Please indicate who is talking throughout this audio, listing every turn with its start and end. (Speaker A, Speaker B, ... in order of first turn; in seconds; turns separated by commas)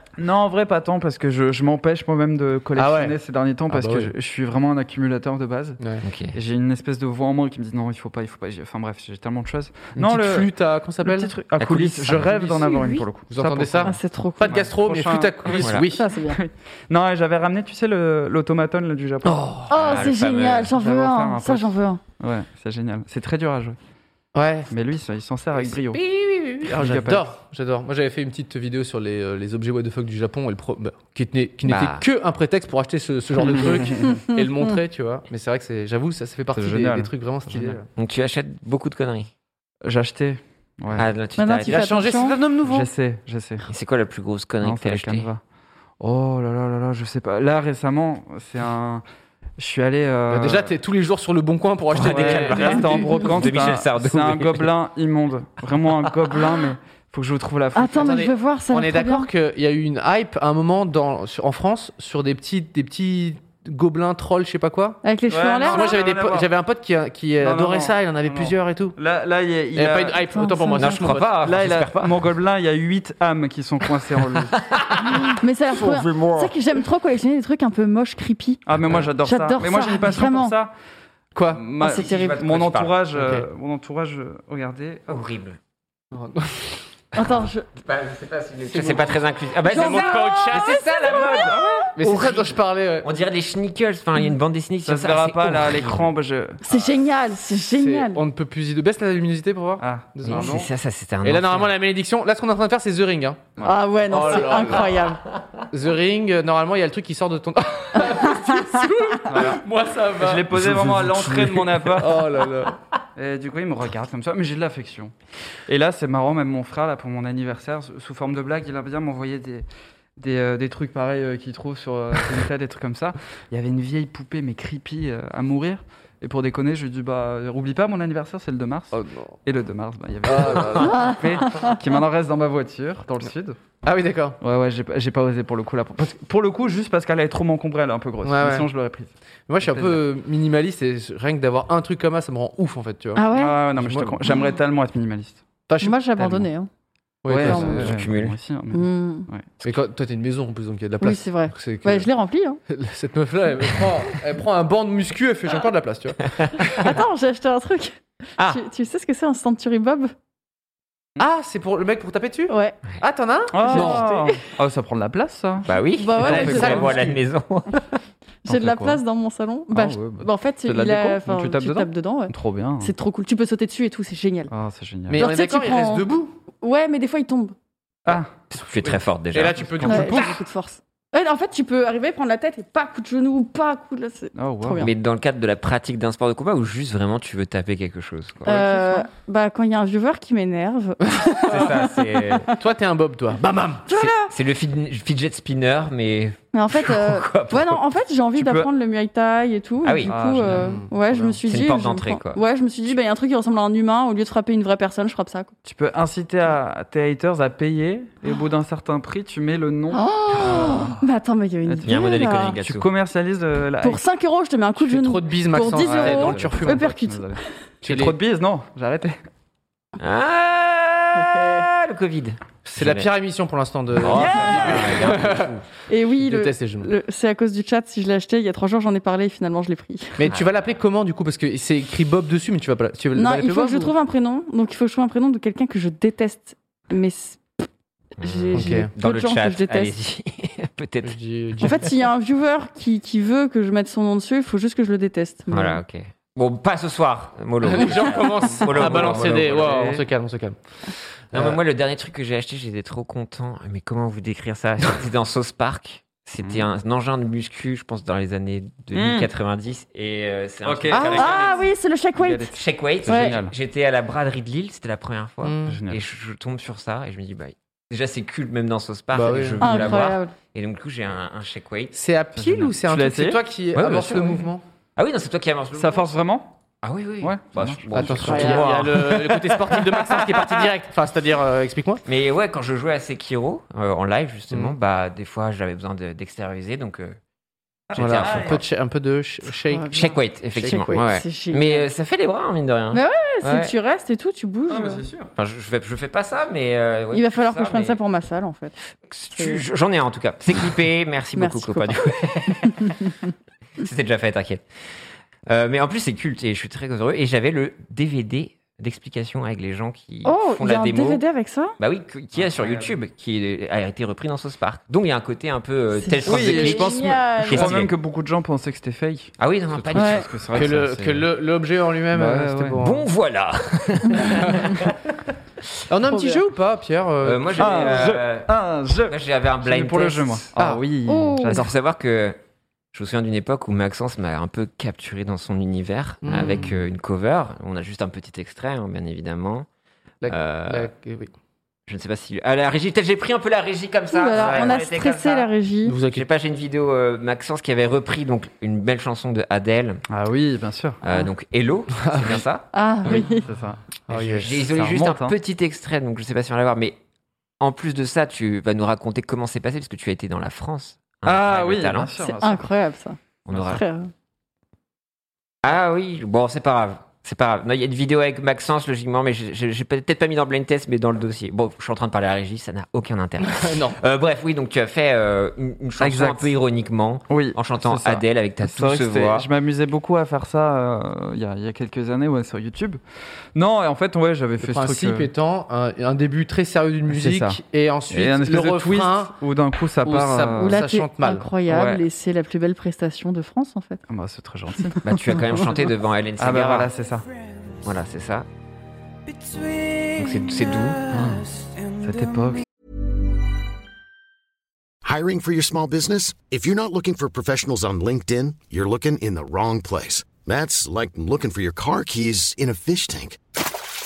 Speaker A: 0.2-5.8, Speaker B: 2.8-3.2, Speaker B: 3.7-4.1, Speaker C: 6.0-6.4, Speaker A: 6.3-10.5, Speaker B: 10.0-11.3, Speaker A: 11.0-20.1, Speaker C: 11.6-12.5, Speaker B: 12.3-12.5, Speaker B: 13.3-16.0, Speaker D: 13.8-14.6, Speaker C: 15.6-15.9, Speaker D: 15.9-16.4, Speaker C: 19.3-20.7, Speaker D: 19.7-22.0, Speaker A: 20.7-23.8, Speaker B: 24.4-24.7, Speaker A: 24.7-26.0, Speaker B: 25.6-37.9, Speaker A: 26.6-27.3, Speaker C: 31.7-32.0, Speaker A: 33.4-34.2, Speaker A: 36.5-37.8, Speaker C: 38.0-39.3, Speaker A: 39.8-41.1, Speaker C: 40.9-42.1, Speaker D: 41.4-42.4, Speaker B: 41.7-42.9, Speaker A: 42.6-43.7, Speaker C: 43.7-45.3, Speaker A: 44.6-45.4, Speaker A: 46.0-49.0, Speaker A: 49.6-50.8, Speaker B: 50.3-53.2, Speaker C: 51.9-54.7, Speaker A: 52.0-58.1, Speaker D: 57.8-59.3, Speaker B: 58.0-65.0, Speaker D: 65.0-66.0, Speaker A: 65.3-66.5, Speaker B: 65.6-69.0, Speaker A: 67.4-70.2, Speaker B: 69.7-71.4, Speaker D: 70.3-71.1, Speaker C: 70.8-72.1, Speaker A: 71.4-74.5, Speaker C: 74.6-76.5, Speaker D: 75.4-78.6, Speaker A: 78.7-80.7, Speaker D: 79.2-80.6, Speaker A: 81.4-85.2, Speaker D: 81.8-82.4, Speaker C: 81.8-83.0, Speaker B: 83.1-83.5, Speaker C: 85.1-85.6, Speaker B: 86.1-86.8, Speaker D: 87.2-87.7, Speaker C: 87.8-96.1, Speaker B: 88.7-93.1, Speaker D: 89.7-91.7, Speaker A: 94.9-96.6, Speaker D: 96.6-98.2, Speaker B: 97.7-100.6, Speaker A: 99.8-100.7, Speaker C: 100.2-101.7, Speaker B: 101.2-103.5, Speaker D: 103.6-105.2, Speaker B: 104.1-105.0, Speaker B: 105.7-112.8, Speaker D: 108.0-108.8, Speaker A: 109.3-109.6, Speaker A: 110.2-112.3, Speaker A: 113.2-115.1, Speaker A: 115.7-119.7, Speaker A: 120.2-133.6, Speaker B: 128.9-129.4, Speaker B: 130.2-131.1, Speaker D: 130.9-131.7, Speaker B: 133.8-134.4, Speaker A: 134.4-140.0, Speaker B: 138.2-138.7, Speaker B: 139.5-144.3, Speaker D: 143.2-143.6, Speaker A: 143.3-145.4, Speaker B: 145.7-146.0, Speaker D: 145.8-146.7, Speaker B: 147.2-148.0, Speaker A: 147.3-149.5, Speaker D: 147.5-147.7, Speaker C: 147.5-148.4, Speaker D: 148.7-149.3, Speaker B: 149.6-152.1, Speaker D: 151.0-152.6, Speaker B: 152.7-156.9, Speaker C: 156.4-156.9, Speaker D: 156.8-160.1, Speaker B: 161.2-164.0, Speaker D: 162.5-162.8, Speaker A: 163.5-165.7, Speaker D: 163.7-164.4, Speaker C: 163.7-164.2, Speaker C: 165.7-167.8, Speaker D: 166.0-166.9, Speaker A: 166.2-167.1, Speaker B: 166.2-167.2, Speaker D: 168.4-174.5, Speaker A: 168.5-169.0, Speaker A: 169.7-172.9, Speaker A: 174.5-175.2, Speaker B: 175.1-176.4, Speaker D: 175.2-176.1, Speaker D: 176.6-177.6, Speaker A: 178.1-178.3, Speaker C: 178.5-180.0, Speaker B: 178.8-180.4, Speaker A: 179.7-180.2, Speaker D: 179.9-184.9, Speaker A: 184.4-184.8, Speaker C: 184.8-188.7, Speaker D: 188.5-192.6, Speaker B: 191.2-191.7, Speaker C: 191.4-192.5, Speaker B: 192.5-193.9, Speaker D: 193.9-194.3, Speaker C: 193.9-197.8, Speaker D: 196.5-205.5, Speaker A: 198.4-198.7, Speaker C: 199.8-200.1, Speaker A: 200.1-200.6, Speaker B: 200.5-201.4, Speaker C: 201.4-202.4, Speaker A: 205.7-211.0, Speaker D: 209.9-212.6, Speaker A: 211.7-214.0, Speaker C: 211.9-212.9, Speaker D: 213.8-217.4, Speaker B: 214.8-217.0, Speaker A: 215.7-219.2, Speaker B: 217.8-218.2, Speaker C: 220.0-223.1, Speaker B: 222.7-225.6, Speaker C: 223.9-225.6, Speaker D: 224.2-224.8, Speaker D: 225.9-230.2, Speaker B: 226.2-226.9, Speaker B: 230.2-233.9, Speaker C: 230.3-230.5, Speaker D: 233.2-237.7, Speaker D: 238.2-239.9, Speaker C: 238.2-241.7, Speaker B: 238.6-238.9, Speaker B: 241.0-241.8, Speaker D: 241.6-245.8, Speaker C: 245.5-250.0, Speaker B: 247.6-250.6, Speaker A: 248.6-249.8, Speaker B: 251.3-251.6, Speaker C: 251.3-261.6, Speaker A: 256.4-256.7, Speaker A: 258.9-259.3, Speaker A: 260.6-261.5, Speaker B: 260.9-261.3, Speaker D: 261.1-263.4, Speaker A: 262.2-263.5, Speaker C: 262.5-272.0, Speaker B: 265.4-265.8, Speaker A: 265.7-266.0, Speaker B: 269.1-270.0, Speaker D: 269.6-270.3, Speaker B: 271.9-274.6, Speaker A: 272.4-273.4, Speaker C: 273.7-276.1, Speaker A: 275.7-276.5, Speaker C: 276.8-280.0, Speaker A: 277.2-278.6, Speaker B: 277.9-282.0, Speaker D: 278.2-278.7, Speaker C: 282.1-287.2, Speaker A: 287.9-288.6, Speaker C: 287.9-288.6, Speaker B: 288.0-291.0, Speaker D: 289.7-291.9, Speaker C: 289.9-293.7, Speaker D: 292.9-295.0, Speaker A: 294.7-295.3, Speaker C: 295.4-298.0, Speaker D: 297.1-298.8, Speaker C: 299.1-303.1, Speaker D: 299.3-299.6, Speaker D: 301.4-302.0, Speaker C: 303.8-304.6, Speaker C: 305.5-311.2, Speaker D: 310.2-311.8, Speaker C: 311.8-317.9, Speaker A: 312.4-312.9, Speaker D: 316.0-317.8, Speaker A: 316.2-321.2, Speaker C: 319.4-321.2, Speaker D: 319.9-320.3, Speaker B: 320.5-323.1, Speaker A: 322.1-322.8, Speaker C: 322.8-324.9, Speaker B: 325.9-328.1, Speaker D: 326.1-326.4, Speaker C: 327.2-328.5, Speaker A: 327.6-331.7, Speaker C: 329.0-330.5, Speaker B: 330.6-330.8, Speaker D: 331.1-331.6, Speaker C: 331.5-332.4, Speaker C: 332.9-339.7, Speaker B: 336.2-336.8, Speaker B: 340.2-341.3, Speaker C: 340.3-340.9, Speaker C: 341.9-345.5, Speaker D: 344.1-346.0, Speaker B: 344.4-344.7, Speaker B: 345.9-346.3, Speaker C: 346.0-350.0, Speaker A: 350.1-351.0, Speaker C: 351.0-353.2, Speaker B: 352.0-352.4, Speaker D: 352.7-353.4, Speaker A: 353.1-355.4, Speaker B: 354.1-354.7, Speaker C: 354.2-357.0, Speaker C: 357.6-362.1, Speaker A: 361.2-362.7, Speaker D: 362.2-364.1, Speaker C: 363.5-363.8, Speaker C: 365.6-379.5, Speaker B: 373.4-374.0, Speaker A: 376.0-376.6, Speaker A: 377.3-383.0, Speaker A: 383.6-385.3, Speaker B: 384.6-389.3, Speaker A: 387.1-390.8, Speaker B: 390.0-391.5, Speaker D: 390.6-394.0, Speaker A: 391.7-392.0, Speaker A: 394.1-395.9, Speaker C: 395.1-396.9, Speaker A: 396.4-397.3, Speaker C: 397.8-398.5, Speaker C: 400.1-401.1, Speaker A: 401.1-401.5, Speaker A: 402.0-402.6, Speaker E: 405.0-413.4